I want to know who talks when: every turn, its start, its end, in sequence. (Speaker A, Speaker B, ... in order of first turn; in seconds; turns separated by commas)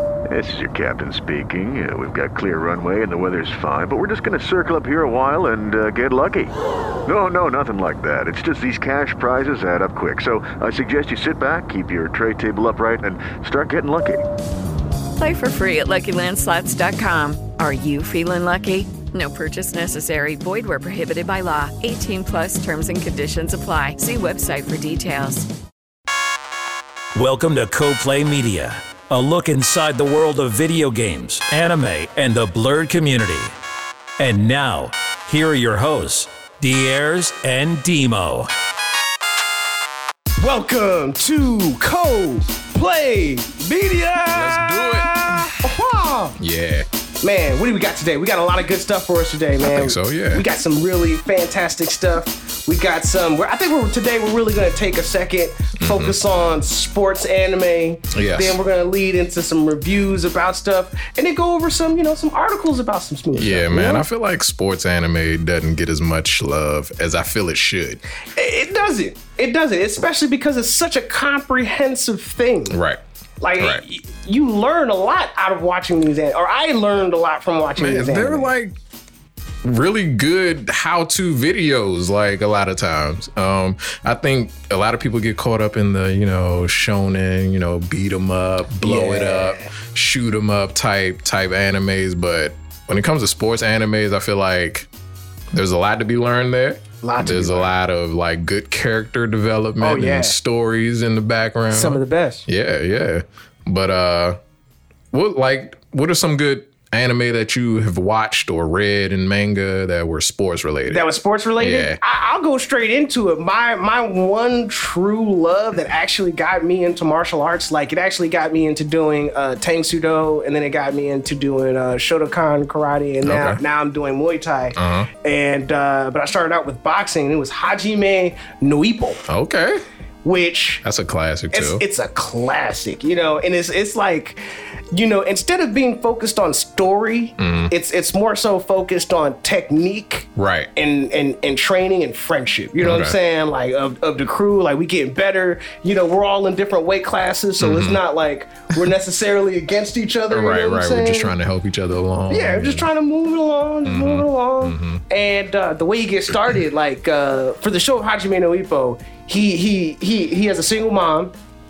Speaker A: 0.3-6.5, Speaker A: 7.1-14.3, Speaker B: 15.2-25.5, Speaker C: 27.1-33.5, Speaker C: 34.2-38.5, Speaker D: 40.4-46.4, Speaker E: 44.3-45.7, Speaker E: 46.4-46.9, Speaker D: 47.2-64.0, Speaker E: 49.6-50.5, Speaker E: 55.8-56.2, Speaker E: 58.1-58.6, Speaker E: 63.3-68.0, Speaker D: 68.3-72.8, Speaker E: 72.7-73.0, Speaker D: 73.4-78.5, Speaker E: 73.6-73.8, Speaker E: 77.8-78.8, Speaker E: 79.6-94.9, Speaker D: 88.8-89.7, Speaker E: 95.5-104.4, Speaker D: 97.0-97.7, Speaker D: 99.8-100.4, Speaker D: 101.7-102.5, Speaker E: 105.1-112.0, Speaker D: 110.9-129.2, Speaker E: 123.2-123.6, Speaker E: 124.8-125.1, Speaker E: 129.3-129.8, Speaker D: 130.2-130.8, Speaker E: 130.8-131.8, Speaker D: 131.5-134.4, Speaker D: 134.9-151.3, Speaker E: 137.4-137.7, Speaker E: 140.4-140.7, Speaker E: 142.8-143.2, Speaker E: 147.6-148.0, Speaker E: 150.3-152.9, Speaker D: 152.3-161.3, Speaker E: 153.8-155.0